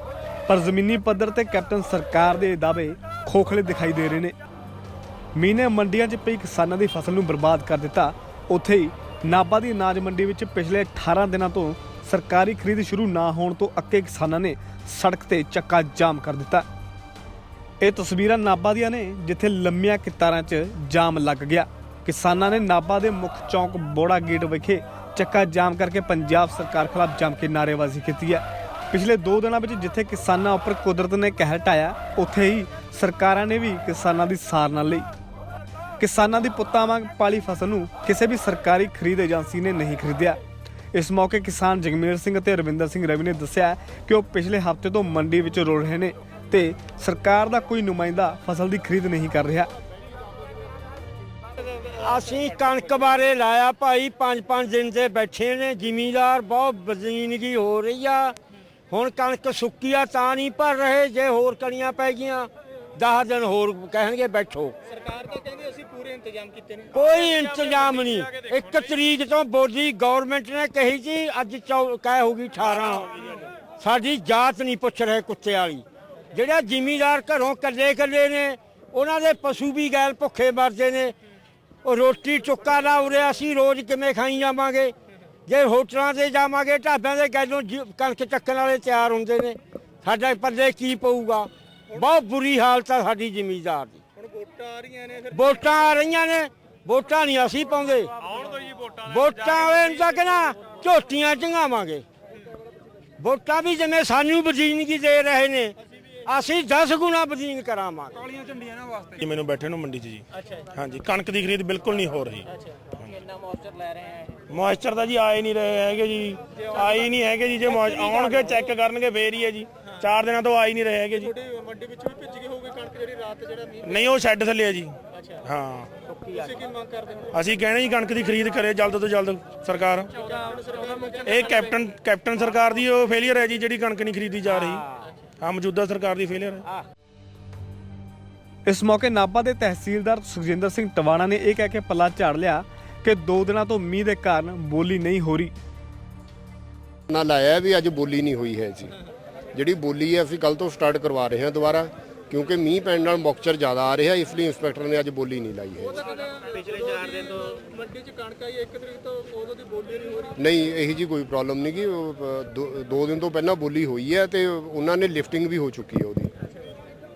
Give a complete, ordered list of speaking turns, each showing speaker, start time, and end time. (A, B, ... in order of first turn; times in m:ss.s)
0:00.5-0:04.3 A
0:05.3-0:16.6 A
0:17.8-0:35.1 A
0:36.0-0:40.4 A
0:40.9-0:49.7 A
0:51.8-0:58.4 B
0:58.9-1:04.8 B
1:05.0-1:06.8 C
1:06.9-1:13.2 B
1:13.8-1:21.1 B
1:21.8-1:24.9 B
1:25.4-1:34.0 B
1:34.2-1:35.2 C
1:35.2-1:38.1 B
1:38.9-1:42.0 B
1:43.2-1:48.4 B
1:48.6-1:53.2 D
1:54.5-2:01.4 D
2:01.4-2:03.8 C
2:03.8-2:05.9 D
2:06.2-2:06.5 B
2:06.4-2:07.2 C
2:07.3-2:10.4 D
2:10.3-2:11.1 C
2:11.1-2:14.8 D
2:15.4-2:16.6 D
2:18.6-2:25.5 A
2:27.1-2:29.0 E
2:29.5-2:36.1 E
2:36.1-2:40.3 C
2:40.3-2:46.3 E